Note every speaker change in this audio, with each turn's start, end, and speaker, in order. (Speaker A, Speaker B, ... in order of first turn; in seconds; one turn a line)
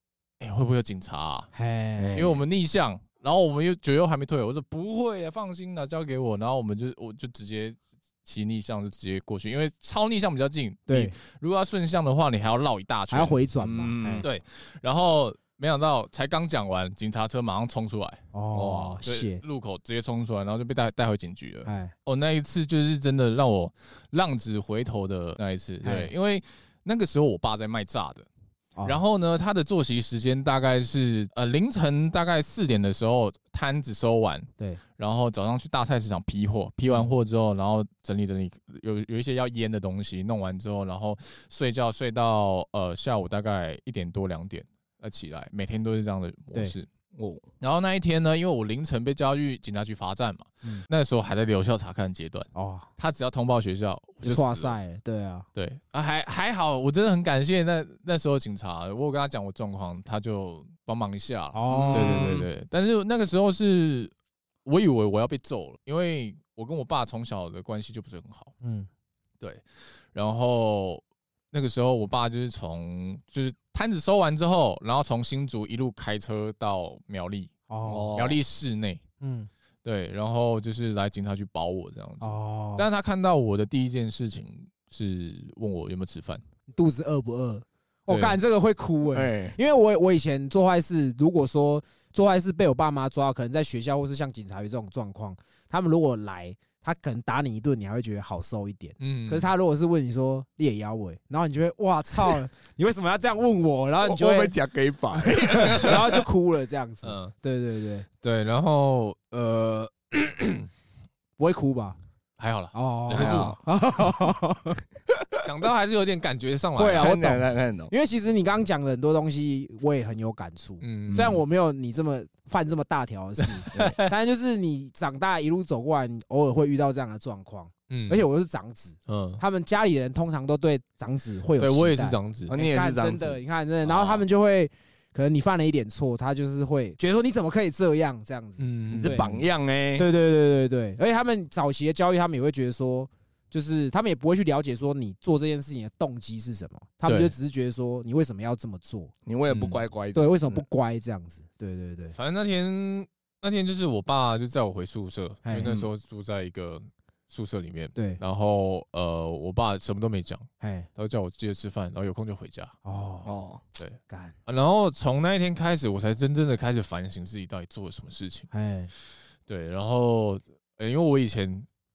Speaker A: 0.4-1.5
Speaker B: 1.5-2.3
Speaker C: 2.0-2.4
Speaker A: 2.1-13.4
Speaker B: 10.9-11.1
Speaker B: 13.1-14.2
Speaker C: 13.6-14.3
Speaker A: 14.2-18.2
Speaker B: 18.3-19.4
Speaker C: 18.5-19.0
Speaker A: 19.0-28.3
Speaker B: 21.6-21.9
Speaker B: 25.8-26.1
Speaker B: 28.8-29.0
Speaker A: 28.8-46.9
Speaker C: 47.1-47.5
Speaker A: 47.6-54.8
Speaker B: 52.5-52.9
Speaker B: 54.2-55.5
Speaker A: 55.5-64.1
Speaker B: 61.5-62.3
Speaker C: 61.7-62.5
Speaker A: 64.6-68.5
Speaker B: 68.6-68.9
Speaker A: 69.4-77.5
Speaker B: 77.7-78.2
Speaker C: 77.8-78.4
Speaker A: 78.1-79.0
Speaker B: 79.2-79.5
Speaker A: 79.8-86.4
Speaker B: 82.2-82.9
Speaker B: 86.7-104.5
Speaker A: 88.1-88.4
Speaker C: 89.1-89.6
Speaker A: 99.0-99.5
Speaker C: 104.0-106.2
Speaker B: 105.1-108.1
Speaker A: 107.0-107.3
Speaker A: 108.2-110.7
Speaker B: 111.4-112.0
Speaker A: 112.4-113.6
Speaker B: 112.7-114.8
Speaker C: 113.1-113.6
Speaker A: 115.4-117.2
Speaker B: 116.8-139.3
Speaker C: 116.9-117.9
Speaker A: 120.8-121.4
Speaker A: 123.5-124.1
Speaker A: 127.9-128.2
Speaker A: 129.1-129.4
Speaker A: 131.6-132.5
Speaker C: 132.5-134.2
Speaker A: 138.6-139.4
Speaker C: 138.9-140.1
Speaker B: 140.0-149.1
Speaker A: 147.1-147.3
Speaker C: 149.2-150.6
Speaker A: 149.5-149.8
Speaker B: 150.1-152.2
Speaker A: 152.2-162.7
Speaker B: 155.4-155.7
Speaker C: 155.6-155.9
Speaker B: 157.9-158.2
Speaker B: 160.6-160.9
Speaker B: 162.8-163.3
Speaker C: 163.2-163.6
Speaker A: 163.8-168.5
Speaker B: 164.1-164.3
Speaker B: 168.5-168.9
Speaker A: 169.5-171.7